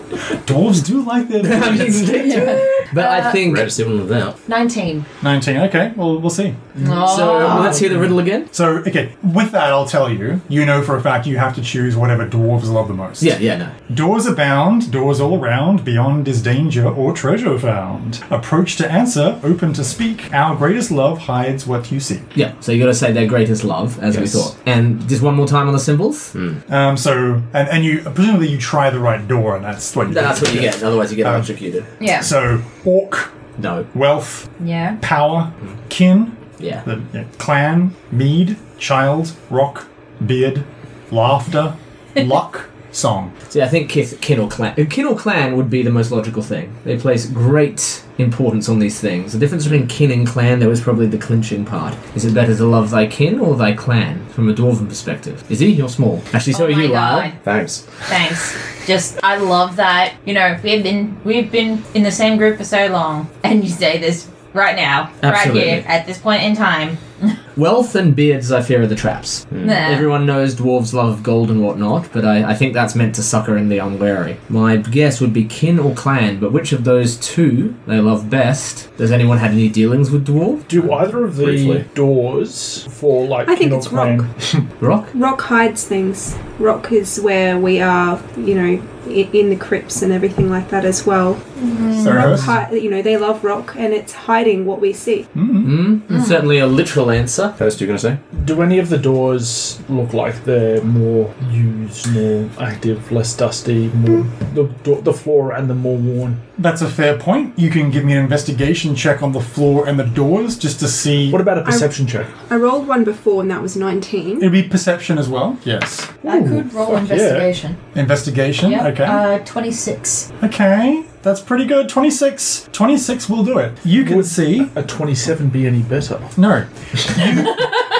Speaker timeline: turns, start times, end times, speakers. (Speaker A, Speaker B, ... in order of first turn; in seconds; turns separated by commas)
Speaker A: 0.4-2.4, Speaker B: 1.4-3.7, Speaker C: 2.0-3.4, Speaker D: 3.4-4.4, Speaker C: 4.5-5.0, Speaker A: 5.2-6.6, Speaker B: 6.8-8.5, Speaker C: 6.8-7.9, Speaker A: 8.5-13.4, Speaker B: 13.2-13.7, Speaker A: 13.9-22.3, Speaker B: 22.3-26.3, Speaker D: 24.1-24.5, Speaker D: 26.3-26.6, Speaker A: 26.7-31.5, Speaker B: 30.1-31.9, Speaker C: 32.0-32.3, Speaker A: 32.0-33.3, Speaker B: 33.6-33.9, Speaker A: 33.9-43.3, Speaker C: 34.6-35.0, Speaker B: 43.5-57.3, Speaker C: 56.5-57.4, Speaker D: 57.4-57.8, Speaker C: 58.1-67.4, Speaker B: 65.2-65.8, Speaker B: 67.5-80.7, Speaker D: 69.5-69.8, Speaker C: 69.6-70.1, Speaker E: 80.7-84.6, Speaker D: 80.8-81.8, Speaker F: 83.5-84.3, Speaker B: 84.8-85.1, Speaker F: 85.1-95.3, Speaker C: 91.6-92.4, Speaker A: 91.9-92.5, Speaker A: 95.3-95.8, Speaker B: 95.6-97.5, Speaker C: 96.1-96.4, Speaker D: 97.6-98.2, Speaker E: 98.3-106.4, Speaker A: 106.6-111.5, Speaker E: 111.3-112.3, Speaker F: 111.6-114.5, Speaker A: 114.4-116.2, Speaker C: 116.2-117.8, Speaker E: 116.2-117.5, Speaker A: 117.9-119.2, Speaker C: 118.6-120.3, Speaker A: 120.4-124.7, Speaker E: 124.0-126.3, Speaker A: 126.3-127.7